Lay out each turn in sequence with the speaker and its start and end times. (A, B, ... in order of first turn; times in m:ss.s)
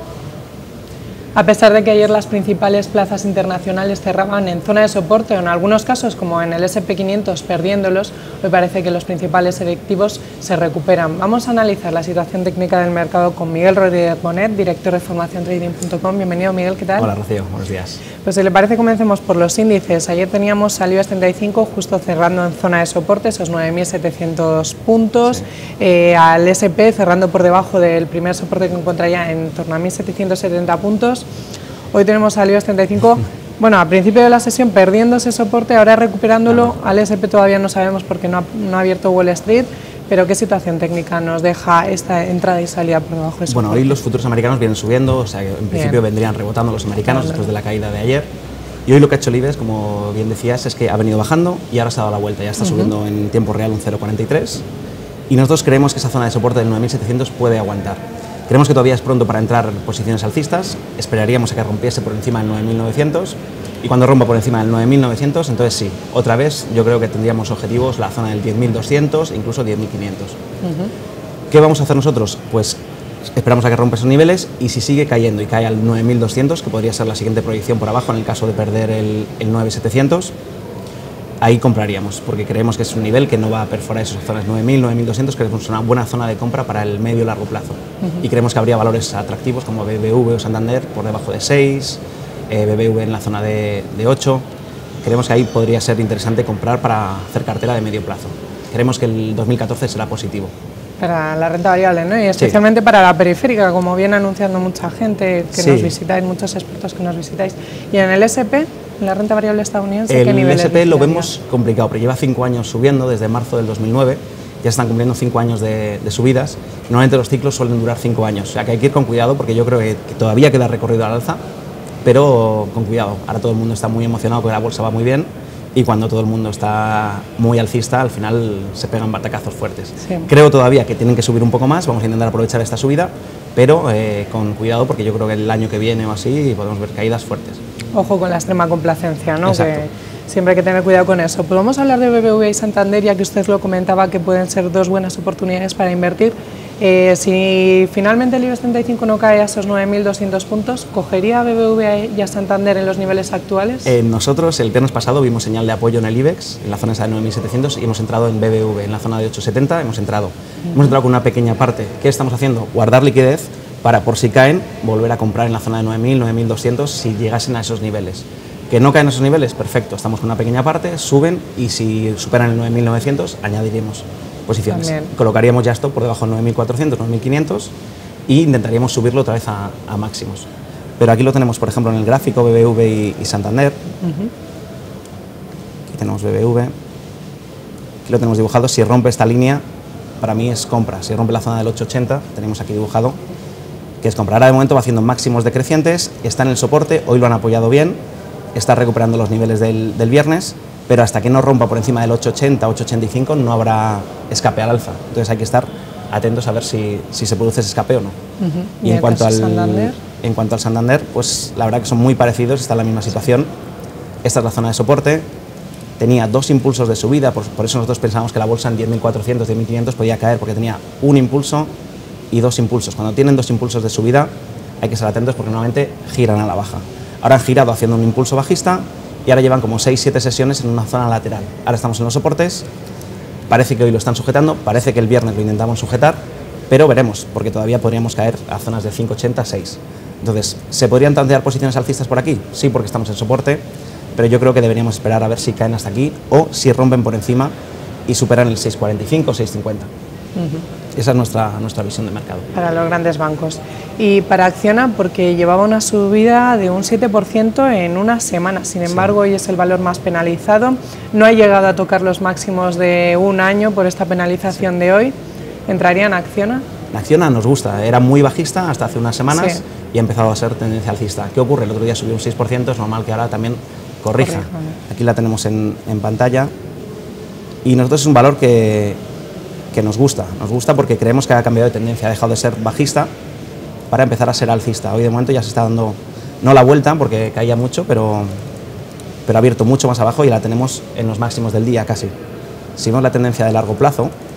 0:01.4-0:17.1 A
0:17.0-0:18.0 B
0:18.2-0:31.3 A
0:31.9-0:44.0 A
0:43.5-0:48.3 B
0:45.7-0:46.0 A
0:47.1-0:47.5 A
0:48.9-0:54.6 B
0:52.6-0:52.9 A
0:55.3-1:10.4 B
1:10.6-1:10.9 A
1:11.5-1:12.8 B
1:13.4-1:20.3 B
1:21.4-1:34.4 B
1:35.0-1:40.5 B
1:41.0-1:51.3 A
1:45.6-1:45.9 B
1:50.1-2:01.4 B
2:02.0-2:17.6 B
2:10.0-2:10.3 A
2:17.9-2:34.0 A
2:19.4-2:19.8 B
2:33.9-2:57.7 B
2:54.7-2:55.1 A
2:58.3-3:00.5 B
3:01.0-3:03.8 B
3:04.0-3:04.3 A
3:05.9-3:06.7 B
3:08.0-3:09.6 B
3:10.2-3:13.2 B
3:14.0-3:18.0 B
3:18.6-3:28.2 B
3:28.4-3:30.0 A
3:28.8-3:33.5 B
3:34.2-3:35.2 B
3:36.0-3:41.7 B
3:42.3-3:44.3 B
3:44.8-3:52.6 B
3:53.5-3:56.2 B
3:56.7-4:03.6 B
4:04.2-4:07.5 B
4:08.1-4:09.9 B
4:10.4-4:10.7 A
4:11.0-4:12.5 B
4:12.5-4:25.1 A
4:25.7-4:26.6 A
4:26.9-4:36.5 B
4:29.3-4:29.6 A
4:34.2-4:34.8 A
4:37.6-4:39.0 B
4:39.7-4:43.1 B
4:43.9-4:48.3 B
4:49.3-4:52.1 B
4:52.8-4:54.1 B